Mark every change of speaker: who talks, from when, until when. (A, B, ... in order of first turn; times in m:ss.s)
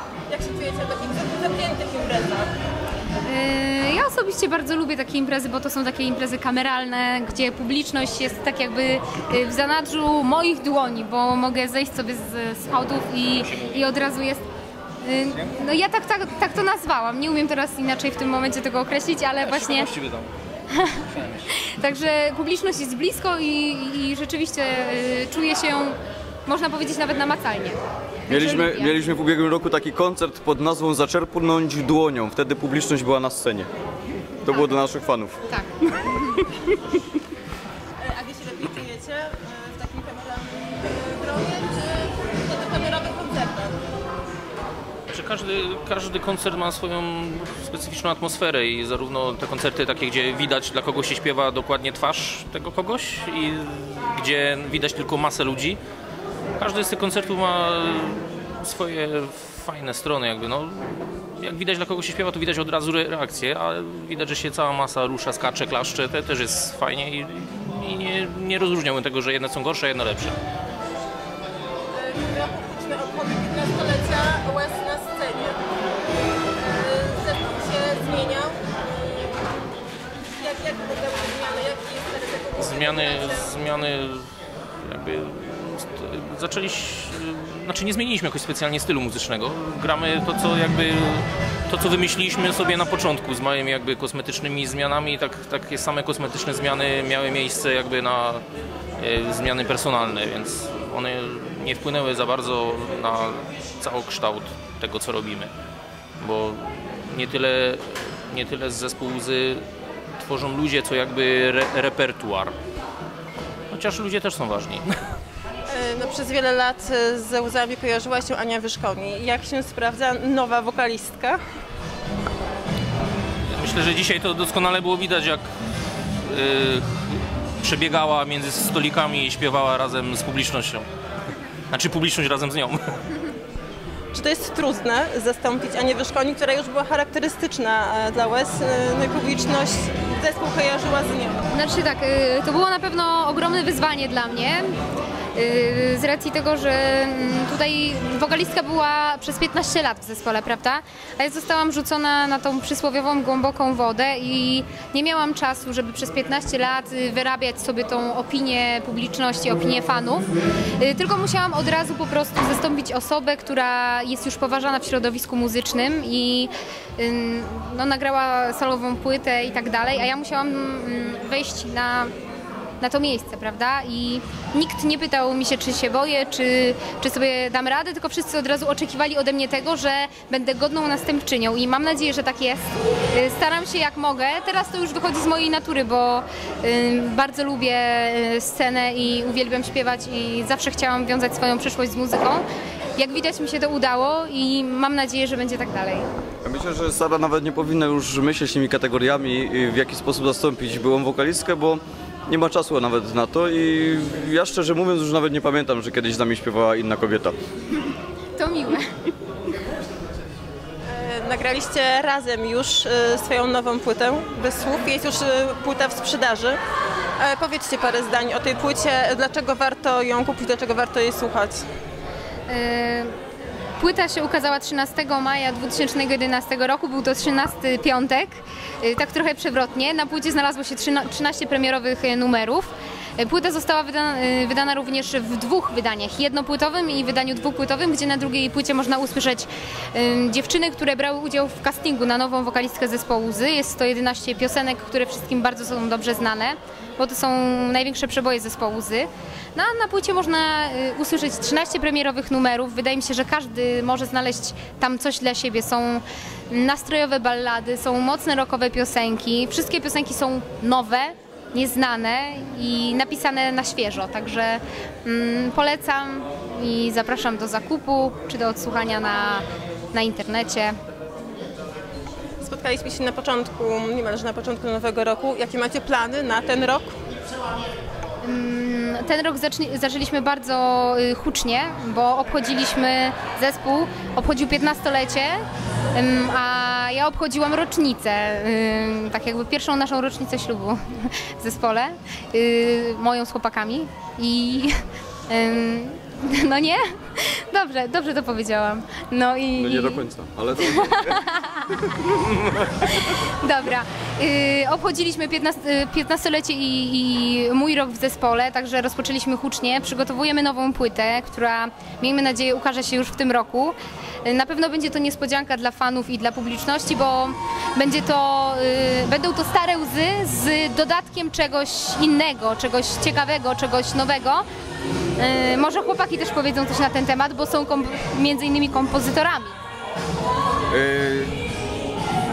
0:00.3-0:02.6 A
0:03.2-0:14.4 B
0:15.0-0:19.9 B
0:19.4-0:20.3 C
0:20.7-0:29.0 B
0:21.1-0:21.5 C
0:28.3-0:33.7 D
0:34.4-0:35.4 D
0:35.5-0:36.5 B
0:38.0-0:43.8 A
0:45.1-0:55.8 C
0:56.6-1:10.4 C
1:11.9-1:15.6 A
1:16.5-1:19.5 A
1:20.3-1:23.5 A
1:22.6-1:38.4 C
1:39.0-1:45.5 C
1:46.2-1:49.6 C
1:50.2-1:52.5 C
1:53.7-1:55.0 C
1:55.7-2:01.4 A
2:03.5-2:05.5 C
2:06.2-2:10.9 C
2:11.7-2:13.2 C
2:14.1-2:21.4 A
2:21.5-2:24.7 B
2:25.3-2:52.1 B
2:52.8-3:12.4 B
3:13.0-3:16.1 B
3:16.4-3:27.3 D
3:28.3-3:28.9 B
3:30.8-3:36.6 A
3:37.2-3:41.6 A
3:42.5-3:43.2 B
3:43.8-4:30.8 B
4:32.4-4:36.9 A
4:38.2-5:00.0 B
4:59.6-5:01.3 D
5:00.6-5:24.4 B
5:02.0-5:03.0 D
5:25.2-5:29.6 B
5:30.7-5:31.3 D